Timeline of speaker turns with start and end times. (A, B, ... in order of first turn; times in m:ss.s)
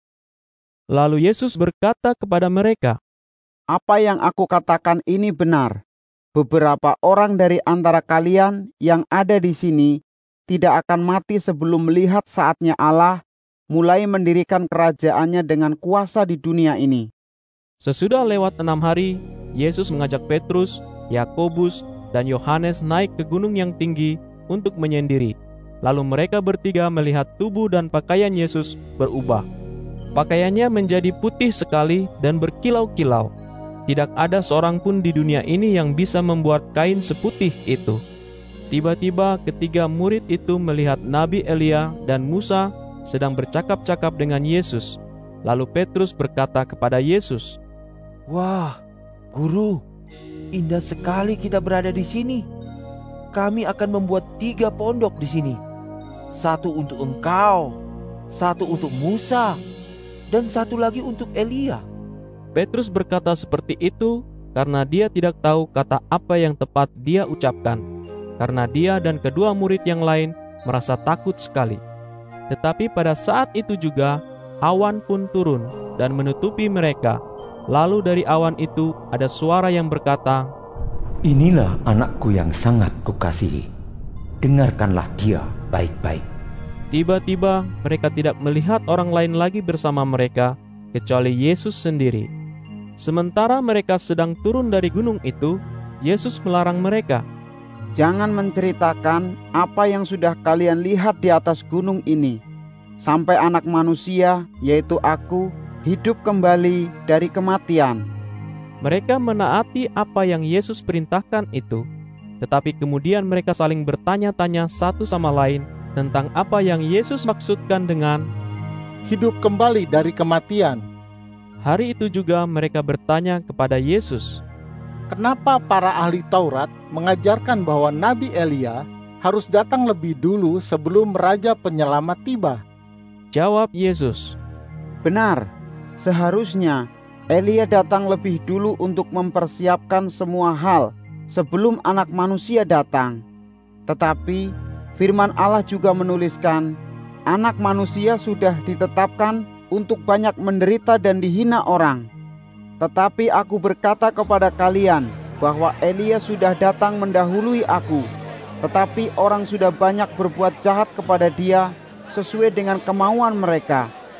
0:00.9-0:03.0 A
0:03.7-0:05.7 B
0:06.4-0:09.9 B
0:10.5-0:13.2 B
0:13.7-0:17.1 B
0:17.8-0:29.5 A
0:30.2-0:33.3 A
0:33.9-0:38.0 A
0:38.7-0:47.6 A
0:48.3-0:48.8 C
0:49.3-0:49.8 C
0:50.5-0:52.5 C
0:53.3-0:55.6 C
0:56.4-0:57.8 C
0:58.3-0:59.6 C
1:00.3-1:01.8 C
1:02.6-1:07.8 A
1:08.4-1:11.8 A
1:12.5-1:17.2 A
1:17.7-1:20.5 A
1:21.2-1:23.7 D
1:24.4-1:26.2 D
1:26.9-1:32.3 A
1:33.0-1:37.2 A
1:38.0-1:42.4 B
1:43.0-1:48.0 B
1:48.8-1:51.8 A
1:52.4-1:58.2 A
1:59.1-2:00.8 E
2:01.6-2:04.4 A
2:05.1-2:12.6 E
2:13.3-2:14.4 A
2:15.0-2:15.4 B
2:16.0-2:23.2 B
2:23.9-2:24.4 B
2:25.0-2:26.7 B
2:27.3-2:32.0 B
2:32.8-2:38.0 B
2:38.6-2:43.8 B